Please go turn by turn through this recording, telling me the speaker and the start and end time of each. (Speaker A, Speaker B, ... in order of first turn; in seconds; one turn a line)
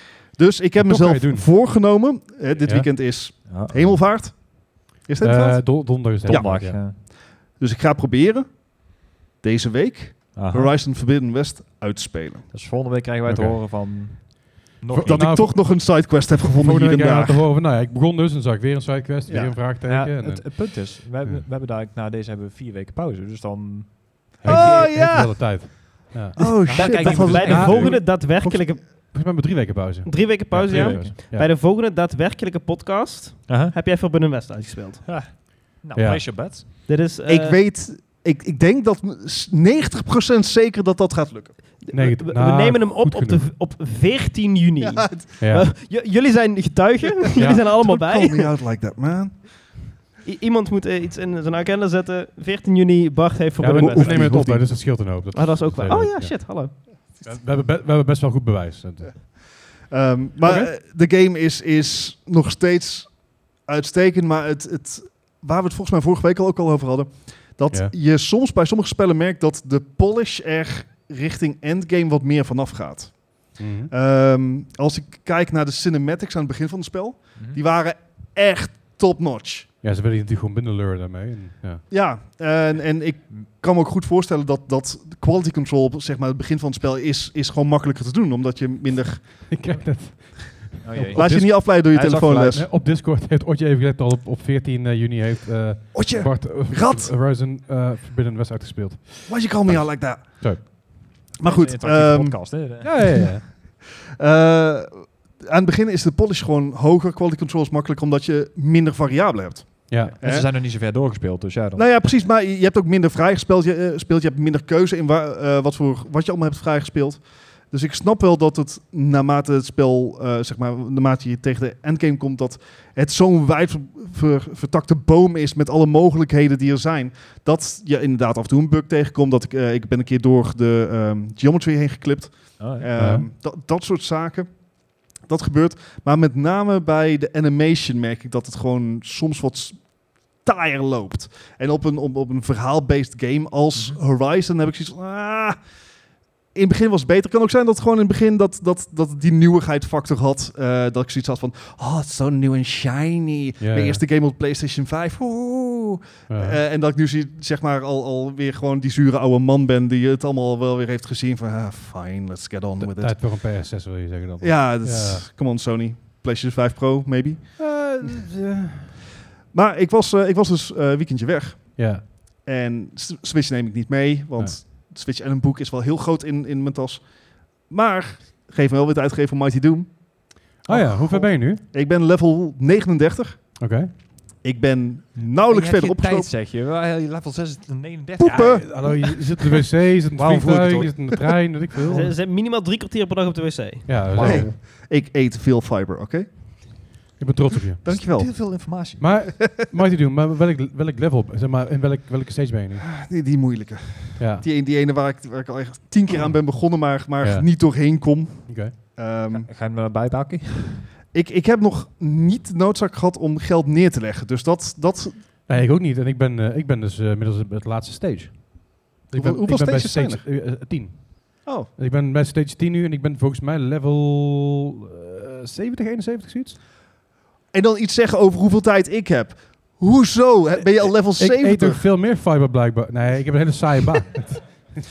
Speaker A: 0.3-12.4
Speaker B: 0.8-1.5
Speaker C: 3.5-4.0
Speaker B: 5.2-6.8
Speaker C: 6.2-7.0
Speaker C: 10.3-10.7
Speaker C: 12.5-15.5
Speaker B: 13.2-14.3
Speaker B: 14.9-21.4
Speaker A: 15.0-17.5
Speaker A: 19.2-19.6
Speaker C: 19.6-25.1
Speaker B: 24.4-26.4
Speaker A: 24.4-25.8
Speaker A: 26.4-28.0
Speaker C: 26.7-28.0
Speaker D: 26.7-29.1
Speaker B: 27.3-31.5
Speaker D: 30.1-35.1
Speaker C: 30.7-31.1
Speaker C: 33.5-33.7
Speaker C: 35.1-36.6
Speaker B: 35.9-36.5
Speaker D: 36.9-37.6
Speaker A: 37.2-41.9
Speaker D: 41.8-48.5
Speaker B: 41.9-43.5
Speaker A: 44.8-45.3
Speaker B: 45.4-45.7
Speaker B: 47.4-47.6
Speaker A: 47.4-50.0
Speaker D: 50.2-56.7
Speaker B: 53.6-59.6
Speaker A: 53.8-54.7
Speaker A: 59.8-79.7
Speaker B: 60.4-60.7
Speaker B: 73.6-73.9
Speaker B: 79.8-81.8
Speaker A: 81.9-89.6
Speaker B: 89.5-91.9
Speaker C: 90.8-92.6
Speaker A: 91.1-92.7
Speaker B: 92.5-100.9
Speaker A: 95.9-97.1
Speaker A: 99.3-102.8
Speaker C: 101.4-103.3
Speaker B: 102.8-103.4
Speaker A: 104.2-110.5
Speaker B: 109.9-110.1
Speaker C: 110.2-111.9
Speaker A: 111.7-145.6
Speaker C: 132.6-132.9
Speaker B: 133.0-133.2
Speaker A: 146.5-163.4
Speaker B: 153.6-154.0
Speaker B: 156.3-156.6
Speaker B: 162.8-165.3
Speaker A: 164.4-167.6
Speaker B: 167.6-168.9
Speaker A: 169.5-183.7
Speaker B: 171.8-172.0
Speaker B: 180.6-181.6
Speaker B: 183.6-183.9
Speaker A: 184.4-186.3
Speaker C: 185.4-189.2
Speaker A: 188.2-189.1
Speaker B: 188.2-192.1
Speaker A: 190.2-191.1
Speaker C: 190.2-190.8
Speaker D: 191.9-194.0
Speaker B: 193.8-194.5
Speaker C: 194.1-194.5
Speaker A: 194.1-196.8
Speaker B: 197.2-197.8
Speaker A: 197.8-198.6
Speaker C: 197.8-199.0
Speaker B: 199.0-202.8
Speaker A: 202.8-209.5
Speaker B: 204.2-204.4
Speaker B: 207.2-208.7
Speaker C: 209.3-210.9
Speaker A: 211.1-215.3
Speaker B: 215.5-226.6
Speaker A: 219.1-220.3
Speaker A: 221.4-221.7
Speaker A: 227.5-231.8
Speaker B: 231.2-234.6